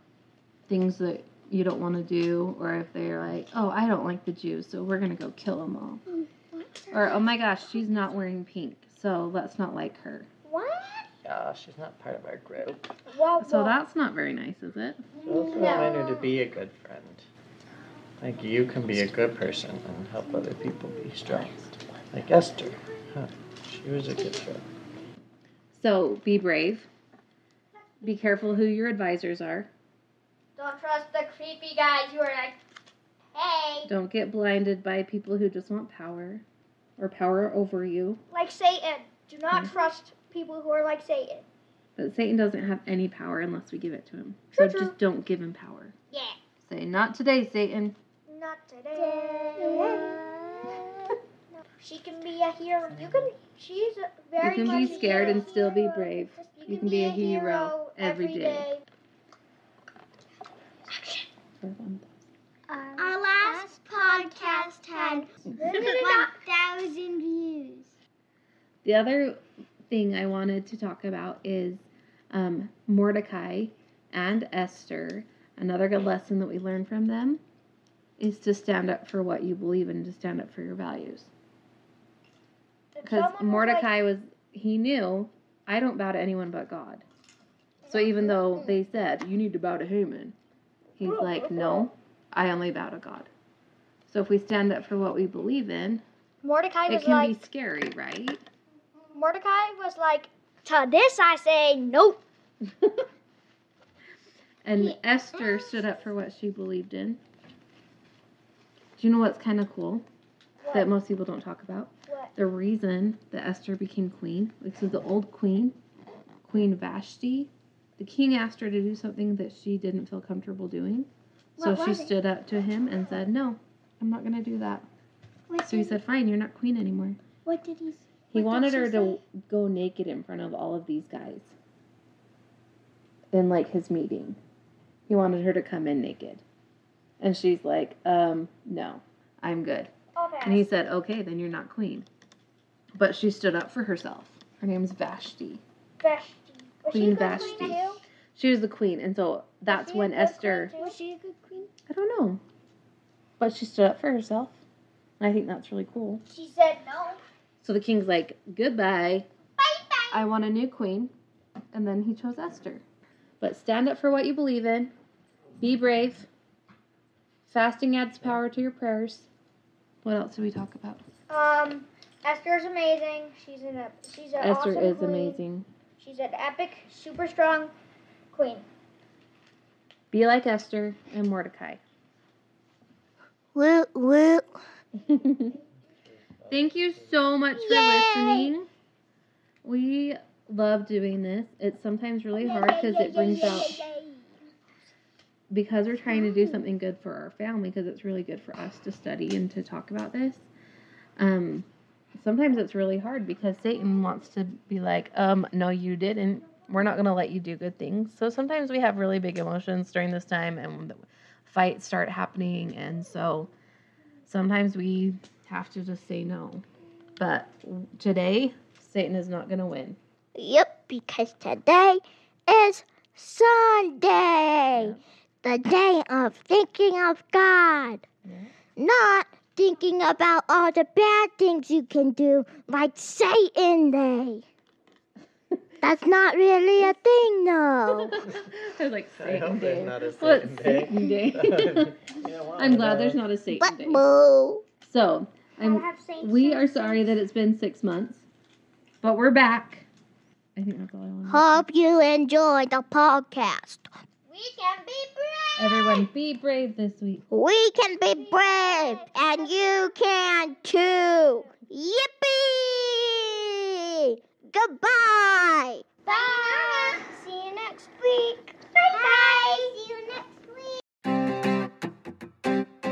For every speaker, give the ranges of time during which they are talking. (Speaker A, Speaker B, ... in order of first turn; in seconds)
Speaker A: 0.7-6.0, 6.9-10.3, 13.4-15.0, 25.7-26.9, 28.0-29.7, 33.9-36.4, 37.0-38.2, 42.0-45.9, 46.6-48.0, 54.4-58.7, 61.6-62.2, 68.8-77.4, 78.2-81.3, 83.0-87.0, 87.9-90.3, 91.0-93.3, 94.1-96.0, 96.9-98.4, 104.6-107.2, 109.0-110.0, 110.7-115.8, 116.4-124.9, 125.7-127.2, 128.3-131.5, 133.3-134.4, 135.1-136.4, 137.2-139.9, 140.4-142.1, 143.0-145.6, 146.9-147.8, 148.3-150.7, 151.9-152.4, 153.4-154.6, 155.2-156.2, 157.6-159.3, 160.1-161.1, 161.7-162.8, 163.4-164.9, 165.6-166.3, 167.5-169.3, 170.0-171.0, 174.4-175.7, 180.1-181.8, 185.0-185.6, 186.5-188.7, 189.6-193.9, 195.5-200.5, 201.2-213.5, 214.3-216.6, 217.2-220.0, 224.7-225.0, 228.2-228.5, 237.9-244.1, 244.8-248.2, 249.0-249.9, 250.6-251.7, 255.6-257.2
Speaker B: 6.1-7.2, 48.9-50.8, 54.7-55.0, 62.7-67.9, 121.6-122.1, 125.5-126.0, 127.5-129.2, 147.1-147.7, 150.8-151.7, 192.3-194.3, 196.1-196.6, 258.1-259.1, 266.1-267.9, 268.7-270.8
Speaker C: 10.4-11.1, 13.1-13.8, 15.5-16.1, 30.6-32.6, 38.3-41.5, 44.5-45.0, 48.3-50.1, 51.5-58.8, 60.9-61.3, 65.6-66.3, 83.0-83.9, 87.9-88.7, 91.0-91.9, 96.4-97.4, 99.1-102.2, 110.6-110.9, 112.1-112.3, 140.2-140.7, 146.0-148.0, 149.7-151.0, 156.3-157.2, 171.3-175.4, 176.0-177.7, 178.3-178.7, 245.6-247.2
Speaker D: 11.2-12.9, 15.2-17.3, 18.2-24.7, 186.1-187.2, 239.2-243.2
Speaker E: 33.4-33.8, 54.6-55.4, 63.0-65.2, 159.6-160.0, 183.6-184.5, 187.7-188.5, 220.3-228.0, 228.8-234.4, 235.8-238.1, 243.6-244.6, 251.3-253.9, 254.7-256.1, 257.3-267.0, 268.9-269.7